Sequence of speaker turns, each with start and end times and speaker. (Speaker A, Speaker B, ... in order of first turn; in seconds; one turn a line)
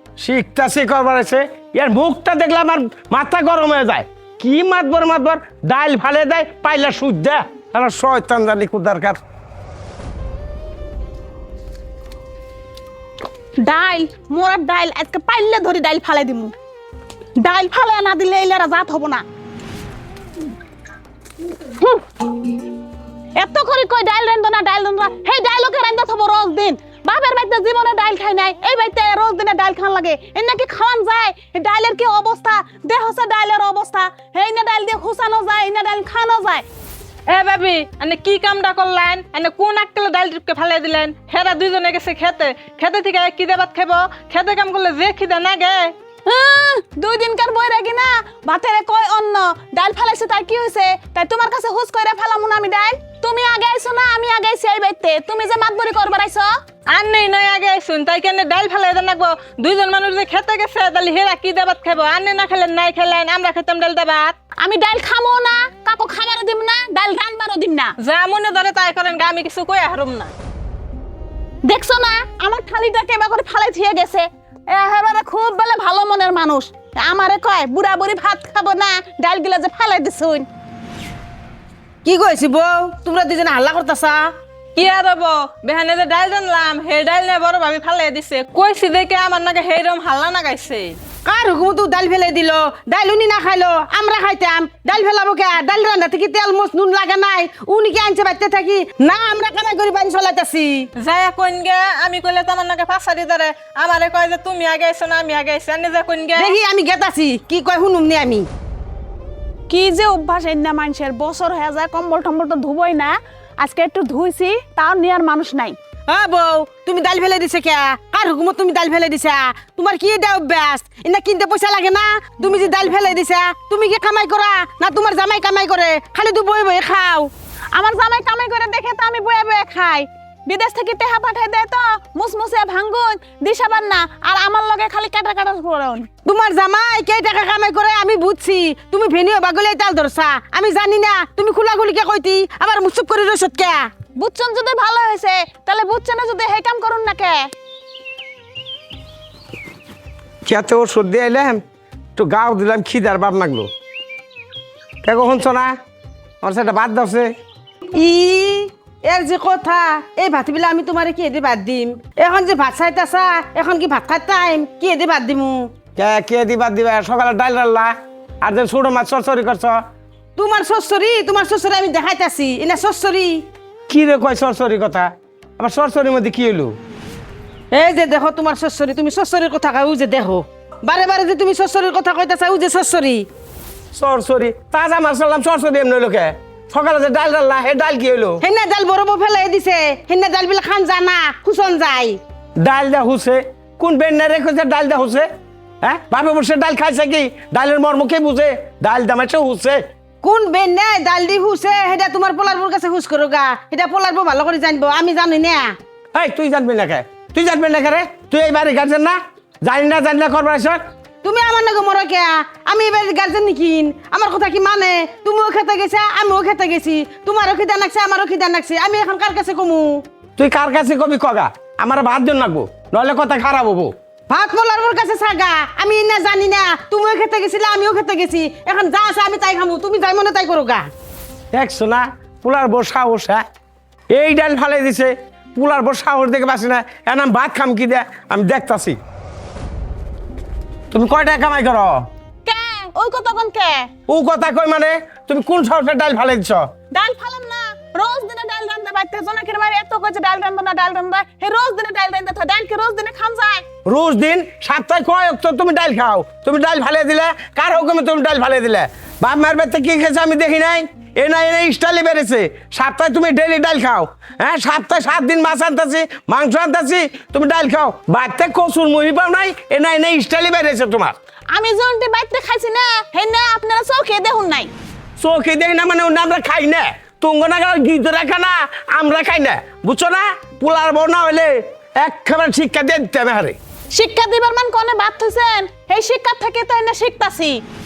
Speaker A: 0.2-9.2
Speaker B: 13.6-16.5
Speaker B: 17.4-19.2
Speaker B: 21.7-22.0
Speaker B: 23.4-36.6
Speaker C: 37.3-45.9
Speaker B: 46.2-56.5
Speaker C: 56.9-64.3
Speaker B: 64.6-67.9
Speaker C: 68.0-70.3
Speaker B: 71.7-80.5
Speaker D: 82.0-84.3
Speaker C: 84.8-91.0
Speaker D: 91.2-100.9
Speaker C: 101.0-106.5
Speaker D: 106.3-108.5
Speaker B: 109.7-115.8
Speaker D: 116.1-127.3
Speaker B: 127.7-136.1
Speaker D: 136.2-143.9
Speaker B: 144.2-147.5
Speaker A: 150.4-151.6
Speaker A: 152.2-153.7
Speaker A: 155.0-155.7
Speaker A: 156.4-157.3
Speaker D: 157.9-165.7
Speaker A: 165.9-169.8
Speaker D: 170.4-173.4
Speaker A: 173.9-176.8
Speaker D: 177.7-183.2
Speaker A: 183.9-188.4
Speaker D: 188.4-192.2
Speaker A: 192.6-195.3
Speaker A: 195.8-199.8
Speaker D: 200.2-205.7
Speaker A: 206.1-210.8
Speaker D: 211.2-220.0
Speaker A: 220.4-223.9
Speaker D: 224.3-230.9
Speaker A: 231.5-233.4
Speaker A: 234.1-239.0
Speaker A: 240.9-242.1
Speaker B: 242.4-243.9
Speaker A: 244.1-246.6
Speaker B: 246.9-253.6
Speaker A: 253.8-271.1
Speaker B: 271.5-274.7
Speaker A: 275.2-283.6
Speaker B: 283.9-287.6